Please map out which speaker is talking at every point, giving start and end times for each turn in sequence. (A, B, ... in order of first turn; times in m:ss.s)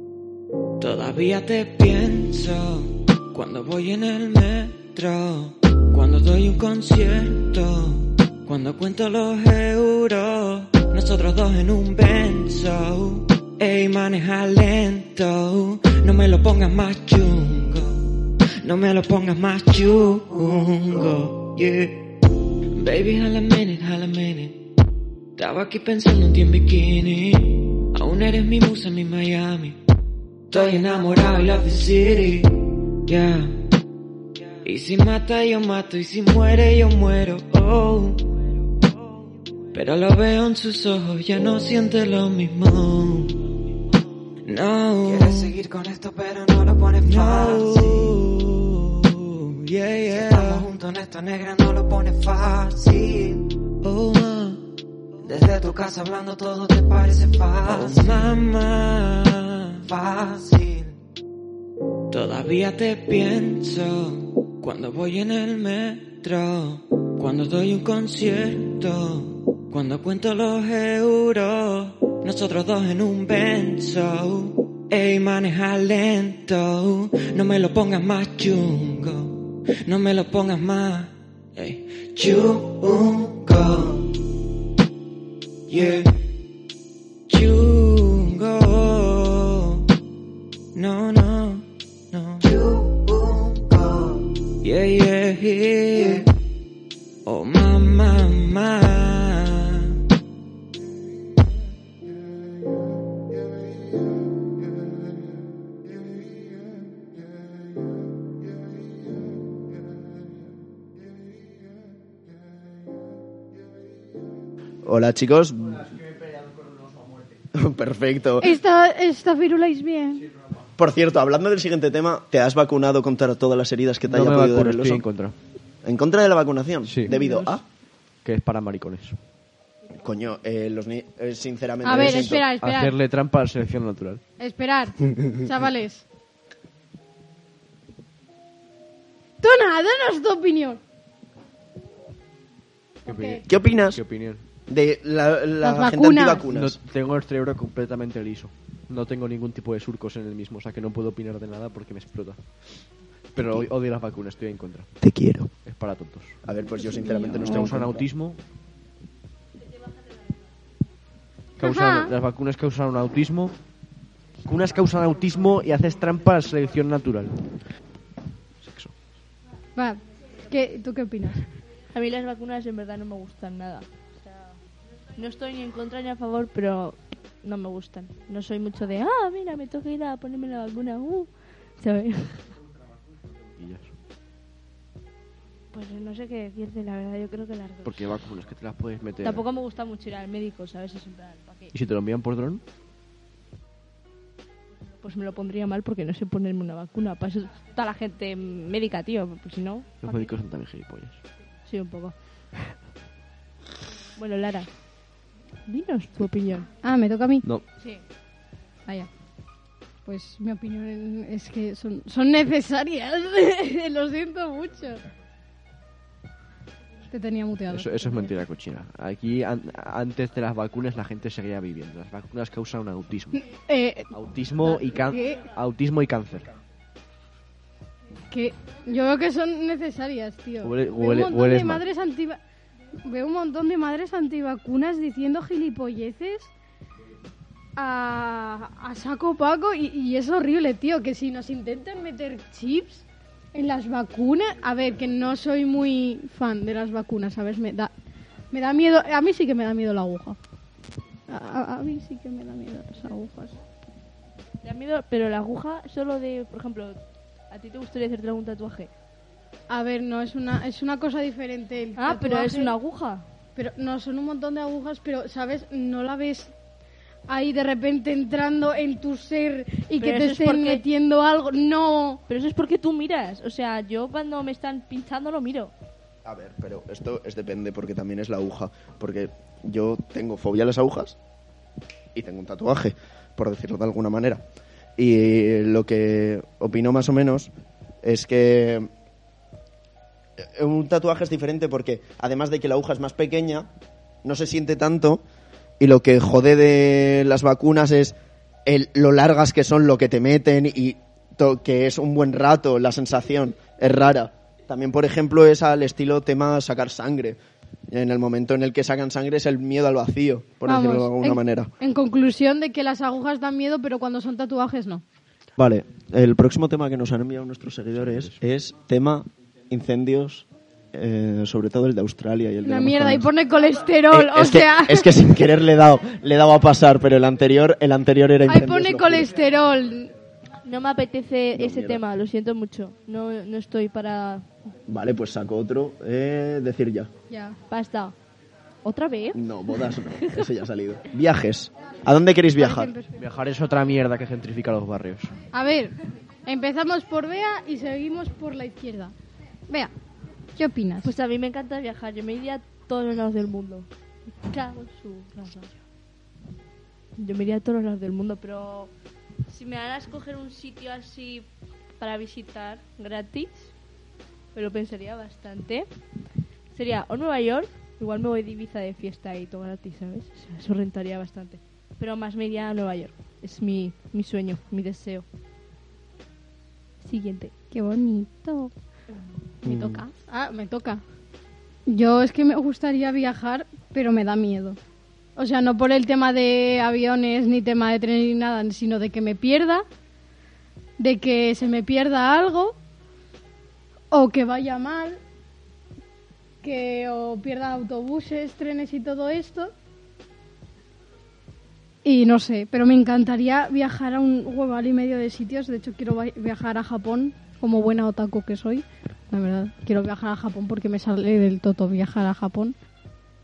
0:00.8-0:22.1 A
0:22.8-0:24.6 A
0:25.4-0:29.8 A
0:30.5-0:33.6 A
0:34.6-0:38.4 A
0:39.7-0:43.4 A
0:44.4-0:54.6 A
0:55.2-1:01.0 A
1:02.1-1:24.1 A
1:25.7-1:26.1 A
1:27.3-1:29.8 A
1:30.7-1:36.3 A
1:37.2-1:40.0 A
1:54.8-1:55.9 B
1:55.8-1:57.4 C
1:57.5-1:58.6 B
1:58.4-2:00.2 D
2:00.2-2:00.6 C
2:00.8-2:05.0 B
2:04.0-2:05.3 C
2:05.8-2:07.6 B
2:06.8-2:07.3 C
2:08.2-2:09.2 C
2:09.9-2:12.4 B
2:11.8-2:13.0 D
2:11.9-2:14.2 C
2:14.4-2:16.0 D
2:19.4-2:20.8 D
2:23.0-2:23.4 D
2:23.0-2:24.4 C
2:23.5-2:24.0 B
2:24.7-2:26.8 B
2:25.6-2:26.5 D
2:26.5-2:32.8 C
2:33.3-2:34.9 C
2:33.4-2:33.7 B
2:35.0-2:35.5 B
2:35.6-2:36.4 C
2:36.4-2:38.1 B
2:36.8-2:37.7 D
2:37.3-2:38.4 C
2:41.6-2:43.5 C
2:41.6-2:42.1 D
2:44.4-2:47.6 C
2:48.6-2:48.9 C
2:49.8-2:51.4 D
2:51.9-2:54.6 E
2:55.1-3:02.5 E
3:03.4-3:03.9 C
3:05.7-3:08.2 E
3:07.8-3:09.4 C
3:09.2-3:11.7 E
3:11.7-3:12.6 C
3:15.0-3:20.3 E
3:20.0-3:21.2 C
3:21.6-3:22.7 E
3:24.2-3:24.7 E
3:25.7-3:26.7 E
3:26.8-3:27.4 D
3:30.0-3:35.0 D
3:37.1-3:38.3 D
3:37.7-3:43.4 C
3:43.3-3:45.4 D
3:44.1-3:46.5 C
3:48.3-3:52.4 D
3:50.6-3:51.8 C
3:53.0-3:56.5 D
3:57.8-4:07.9 D
4:08.5-4:10.4 D
4:11.3-4:13.6 D
4:14.6-4:17.0 E
4:17.5-4:18.9 E
4:19.7-4:22.7 D
4:22.0-4:23.2 E
4:23.6-4:26.5 D
4:27.3-4:32.2 D
4:30.0-4:30.8 E
4:32.3-4:35.7 E
4:36.2-4:41.2 B
4:42.1-4:44.4 B
4:45.0-4:47.5 B
4:48.0-4:48.9 B
4:50.4-4:53.7 B
4:54.2-4:55.2 B
4:55.8-5:07.4 B
5:07.9-5:11.7 B
5:10.6-5:15.0 D
5:15.6-5:23.3 B
5:18.0-5:18.4 C
5:22.6-5:25.2 D
5:24.1-5:29.4 B
5:28.4-5:30.1 D
5:30.6-5:34.4 E
5:31.5-5:32.0 B
5:34.9-5:37.1 B
5:37.3-5:37.6 D
5:37.7-5:38.1 E
5:38.8-5:40.5 E
5:39.3-5:42.9 B
5:42.6-5:43.2 D
5:43.1-5:45.3 C
5:45.5-5:49.1 D
5:50.6-5:51.1 D
5:51.0-5:53.9 E
5:54.4-5:55.8 E
5:57.2-5:58.9 E
5:59.5-6:01.5 E
6:02.0-6:03.7 E
6:04.5-6:05.9 E
6:06.7-6:15.2 E
6:17.0-6:17.5 E
6:17.7-6:18.7 D
6:19.6-6:20.0 B
6:19.6-6:21.0 D
6:21.9-6:24.8 D
6:25.4-6:29.8 D
6:31.0-6:32.8 D
6:34.1-6:35.2 D
6:36.6-6:39.7 D
6:42.0-6:52.8 D